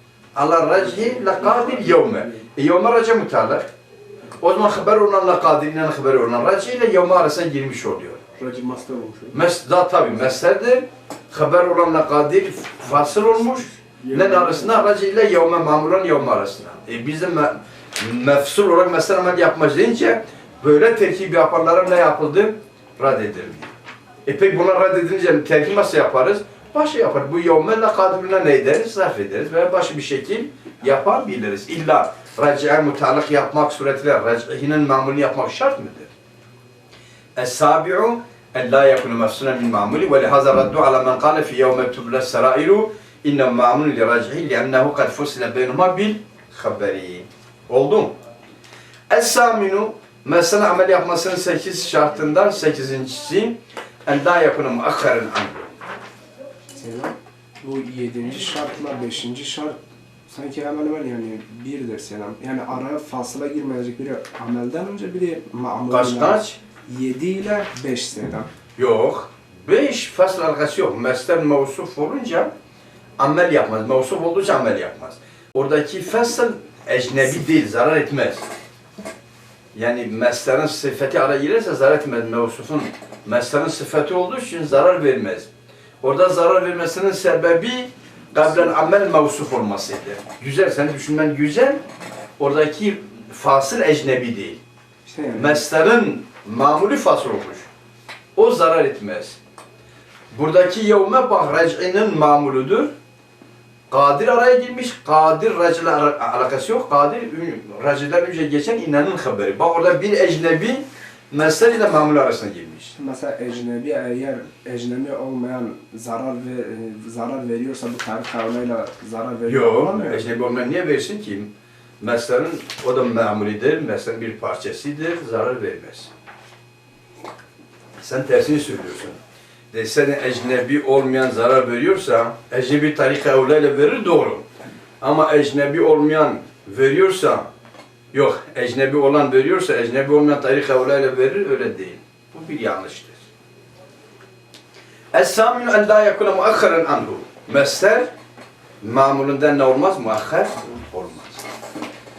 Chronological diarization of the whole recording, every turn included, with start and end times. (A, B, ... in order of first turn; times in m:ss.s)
0:00.4-0:03.7 A
0:01.0-0:02.4 B
0:04.4-0:08.2 A
0:08.4-0:09.4 B
0:09.3-0:23.7 A
0:14.0-0:14.7 B
0:24.3-0:36.1 A
0:37.4-0:48.1 A
0:49.1-0:55.7 A
0:56.7-1:08.5 C
1:05.9-1:06.6 A
1:08.8-1:12.5 A
1:13.2-1:18.4 A
1:19.8-1:25.5 A
1:26.0-1:31.8 A
1:32.4-1:34.6 A
1:35.1-1:35.6 C
1:35.4-1:37.7 A
1:38.4-1:39.4 A
1:40.3-1:42.9 A
1:43.9-1:53.0 A
1:53.0-2:00.3 C
1:59.5-2:06.1 A
2:08.0-2:09.2 A
2:09.7-2:14.4 A
2:15.0-2:17.5 A
2:18.1-2:23.2 A
2:25.1-2:28.1 A
2:28.8-2:31.4 A